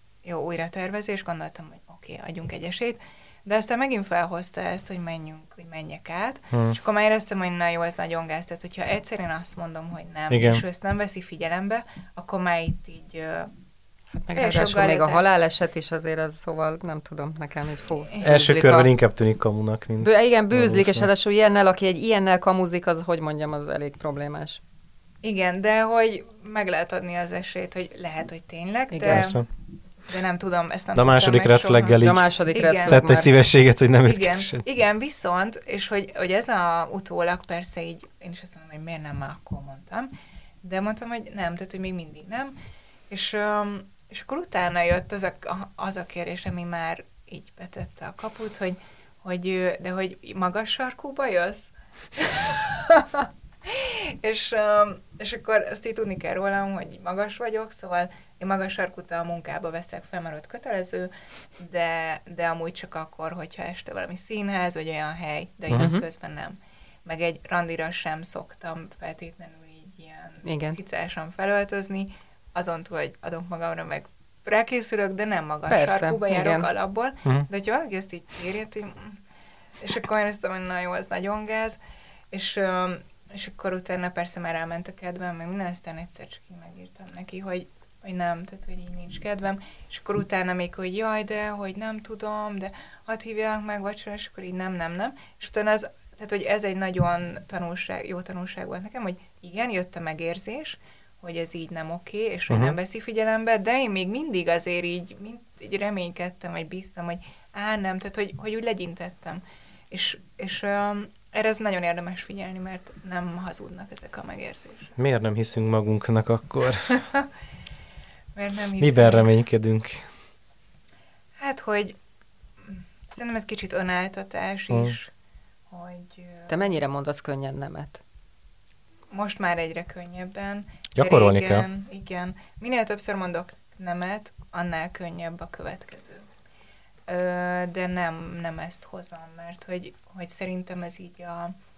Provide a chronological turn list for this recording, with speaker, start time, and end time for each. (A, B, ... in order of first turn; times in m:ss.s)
0:00.2-0:13.5 A
0:10.3-0:10.6 B
0:14.3-0:18.9 C
0:14.3-0:15.2 A
0:18.2-0:21.1 B
0:20.0-0:24.6 C
0:25.2-0:29.4 A
0:29.0-0:29.5 B
0:30.1-0:33.1 A
0:30.9-0:32.3 B
0:32.0-0:33.3 C
0:32.8-0:34.6 B
0:34.0-0:40.1 A
0:40.6-0:42.5 A
0:43.1-1:19.2 A
1:05.7-1:06.0 C
1:10.4-1:10.8 C
1:15.7-1:16.7 C
1:19.8-1:21.8 A
1:22.3-1:54.9 A
1:42.5-1:42.8 B
1:55.0-1:57.0 B
1:58.4-1:59.3 A
1:58.8-2:00.1 B
2:01.4-2:02.0 A
2:02.6-2:05.1 A
2:05.7-2:06.7 A
2:06.5-2:08.0 C
2:09.1-2:16.2 A
2:10.9-2:11.7 B
2:17.1-2:21.5 A